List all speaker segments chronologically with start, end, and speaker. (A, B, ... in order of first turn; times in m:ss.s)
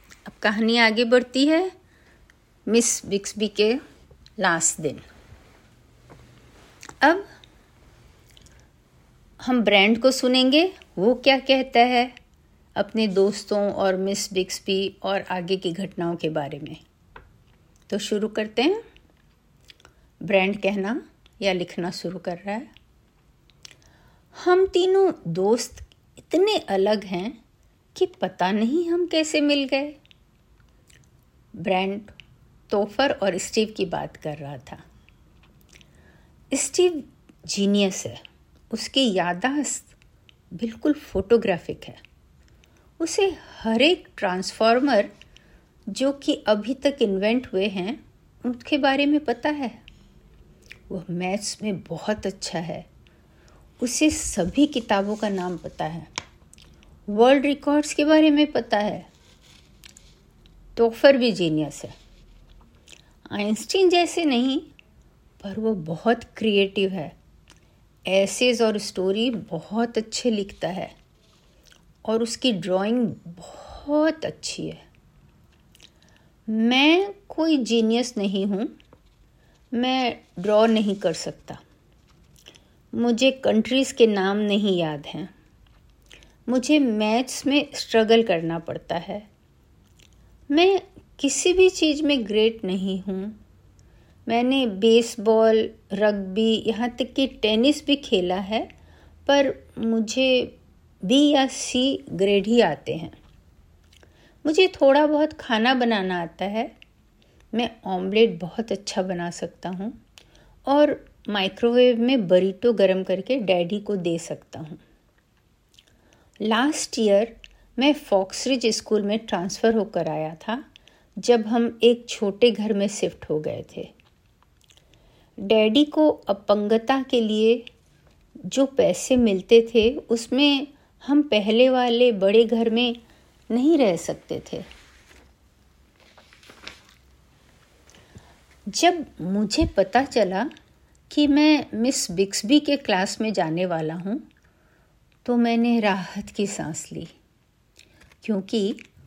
0:00.2-0:01.7 A
0:02.7-0:03.8 A
0:04.4-0:05.0 A
0:09.4-0:12.2 A
0:12.8-0:16.8 A
0:17.9-0:18.8 A
0:20.2-0:22.7 A
0:24.4-0:27.4 A
0:28.0-0:30.0 A
0:31.6-0:32.2 A
0:32.7-0:34.8 A
0:36.5-0:39.9 A
0:40.5-0:42.0 A
0:43.0-0:45.1 A
0:45.9-0:49.8 A
0:50.9-0:52.9 A
0:53.8-0:56.1 A
0:57.1-0:59.1 A
1:00.8-1:01.9 A
1:03.3-1:04.7 A
1:05.4-1:07.2 A
1:08.1-1:11.0 A
1:12.0-1:14.8 A
1:16.5-1:18.7 A
1:19.7-1:21.6 A
1:22.9-1:25.3 A
1:26.5-1:29.3 A
1:30.5-1:33.4 A
1:34.3-1:38.7 A
1:39.3-1:43.2 A
1:44.4-1:46.7 A
1:47.5-1:50.0 A
1:50.7-1:54.8 A
1:56.4-2:00.6 A
2:01.2-2:03.9 A
2:05.4-2:07.6 A
2:08.5-2:13.0 A
2:13.5-2:14.7 A
2:18.7-2:20.5 A
2:21.1-2:24.2 A
2:25.2-2:27.1 A
2:28.2-2:28.8 A